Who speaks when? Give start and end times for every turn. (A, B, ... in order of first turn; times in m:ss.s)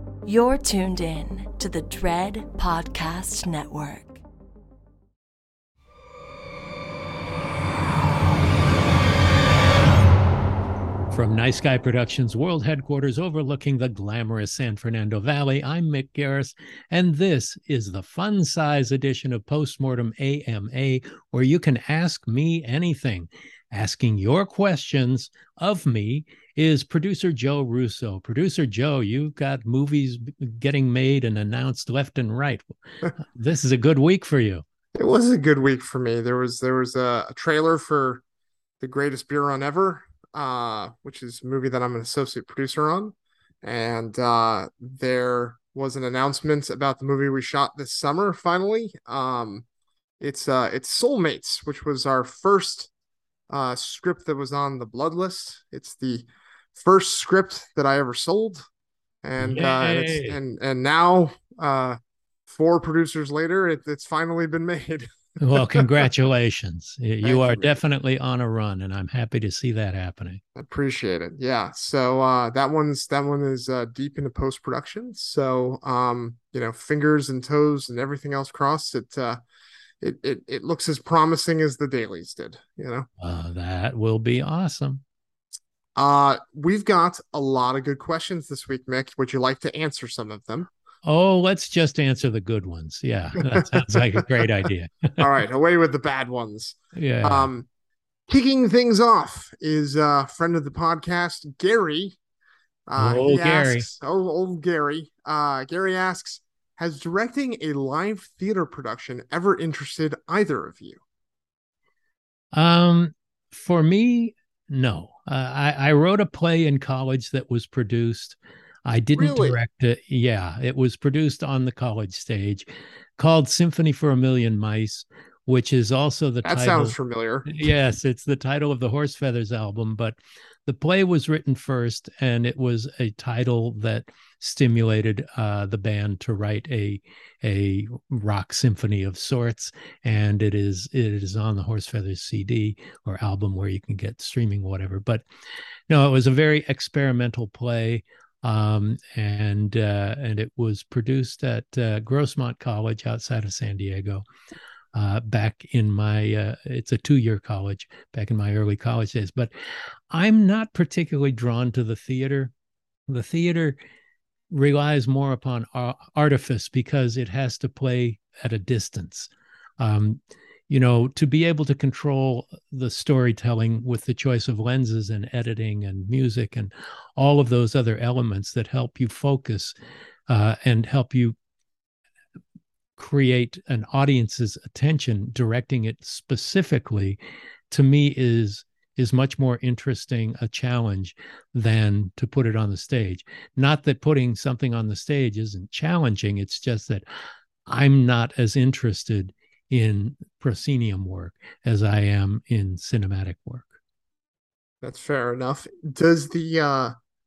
0:00.2-0:04.2 A
0:11.1-0:34.6 B
0:34.9-0:38.2 C
0:38.8-0:49.6 C
0:50.2-0:52.9 C
0:53.5-0:58.6 C
0:59.2-1:06.0 C
0:59.4-1:00.4 B
1:05.4-1:10.4 B
1:07.2-1:07.7 C
1:10.5-1:19.4 C
1:20.0-1:23.1 C
1:23.2-1:25.0 B
1:26.0-1:30.7 C
1:31.0-1:35.3 B
1:33.4-1:34.2 C
1:35.2-1:37.7 C
1:36.9-1:37.5 B
1:38.3-1:42.2 C
1:42.9-1:51.0 C
1:43.0-1:43.9 B
1:52.5-2:02.7 B
1:59.1-1:59.6 C
2:03.2-2:06.9 B
2:06.4-2:07.6 C
2:07.4-2:25.2 B
2:25.9-2:34.2 B
2:34.9-2:39.5 B
2:40.1-2:42.5 B
2:43.1-2:43.8 B
2:44.5-2:59.7 B
3:00.3-3:01.4 B
3:03.0-3:07.2 B
3:07.7-3:17.0 B
3:17.7-3:23.8 B
3:24.8-3:26.9 C